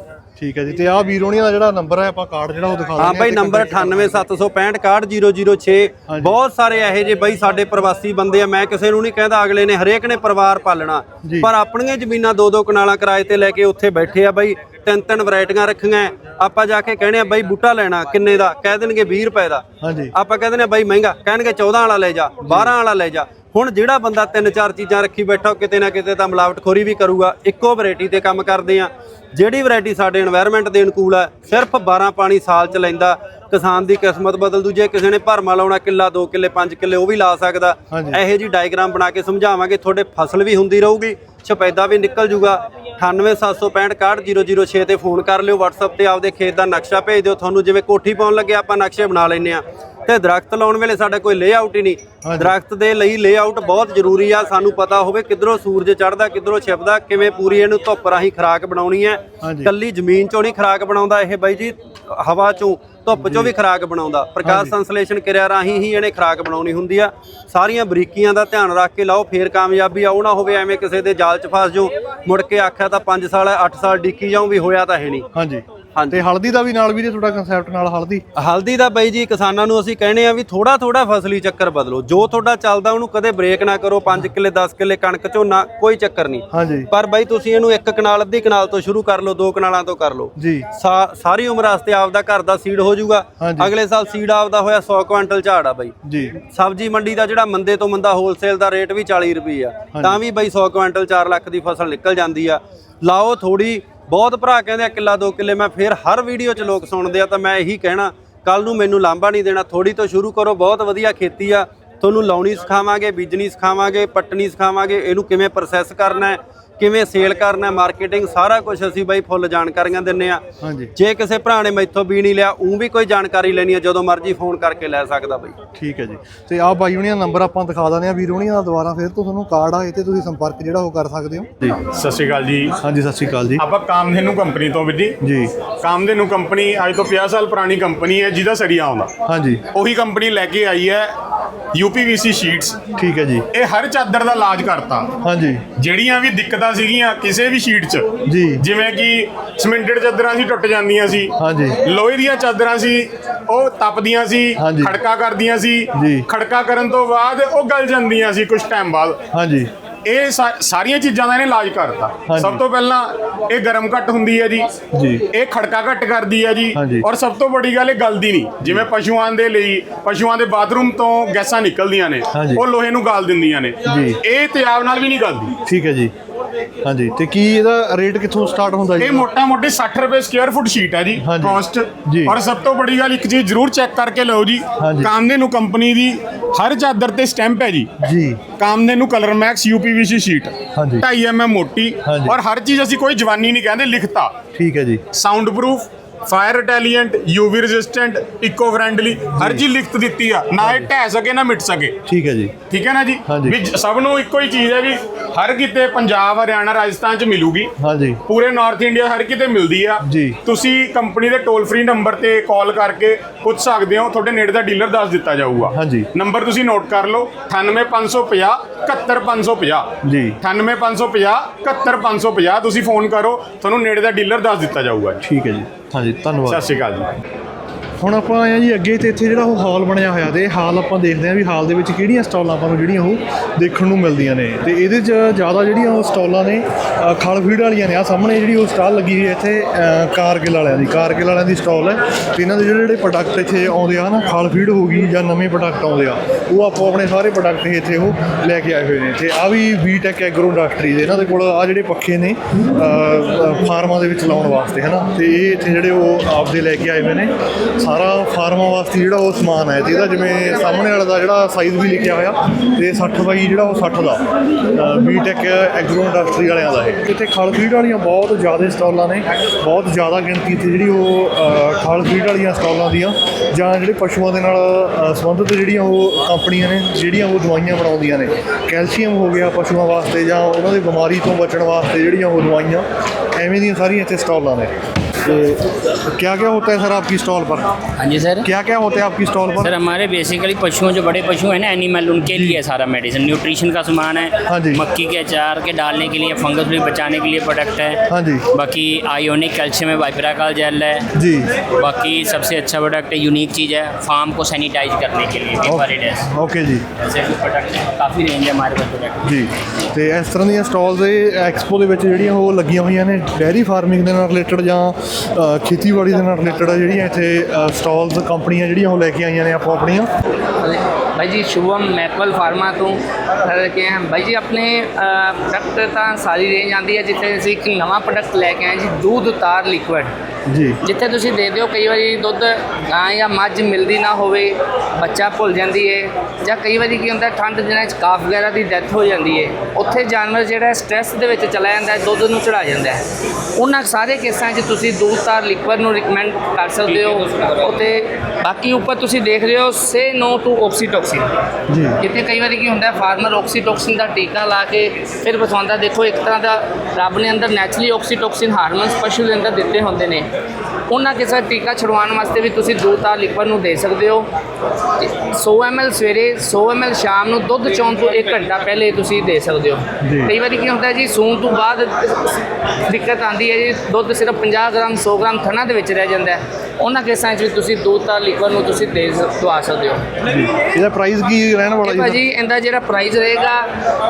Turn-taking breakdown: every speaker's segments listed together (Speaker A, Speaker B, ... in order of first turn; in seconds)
Speaker A: 0.4-4.2, 6.1-6.3, 11.2-11.5, 19.8-20.1, 22.4-22.7, 37.9-38.2, 52.2-52.5, 59.4-59.7, 63.1-63.5, 64.4-64.7, 75.3-78.2, 86.5-86.9, 90.4-90.7, 93.4-93.7, 96.0-96.3, 99.9-100.2, 120.6-120.9, 125.8-131.8, 132.8-133.6, 135.2-135.5, 139.2-139.6, 143.0-143.5, 145.2-145.6, 148.2-148.6, 151.4-151.8, 154.6-155.0, 155.9-156.3, 159.3-159.7, 162.3-162.6, 164.9-165.2, 166.7-167.1, 172.3-172.7, 173.8-174.2, 175.7-176.1, 176.8-179.3, 181.2-182.4, 184.8-185.1, 188.0-188.4, 190.8-191.1, 192.0-192.4, 194.5-195.0, 199.4-199.6, 200.6-200.9, 202.1-202.5, 203.3-203.6, 207.8-208.2, 210.0-210.4, 215.7-216.1, 220.0-220.4, 225.2-226.6, 228.0-287.7, 288.4-289.7, 292.2-292.6, 294.5-294.8, 298.1-298.4, 301.1-301.5, 305.6-306.9, 309.2-320.1, 330.5-330.8, 351.7-352.0, 370.0-370.3, 380.2-382.2
Speaker B: 3.0-75.2, 76.0-76.2, 78.3-120.4, 121.0-125.5
Speaker C: 131.8-132.7, 133.6-135.2, 135.8-139.1, 139.7-141.1, 141.7-142.8, 143.5-145.1, 145.8-151.3, 151.8-159.2, 160.0-164.7, 165.3-175.5, 179.0-187.9, 188.6-194.3, 195.1-201.9, 202.7-207.7, 208.3-219.9, 220.4-225.2, 226.5-227.1
Speaker D: 288.0-288.5, 289.6-298.0, 298.5-301.0, 301.8-306.3, 307.0-309.3, 346.9-347.6
Speaker E: 320.6-330.1, 330.8-343.0, 343.6-351.2, 352.0-360.3, 360.9-364.3, 365.0-380.1, 381.8-383.7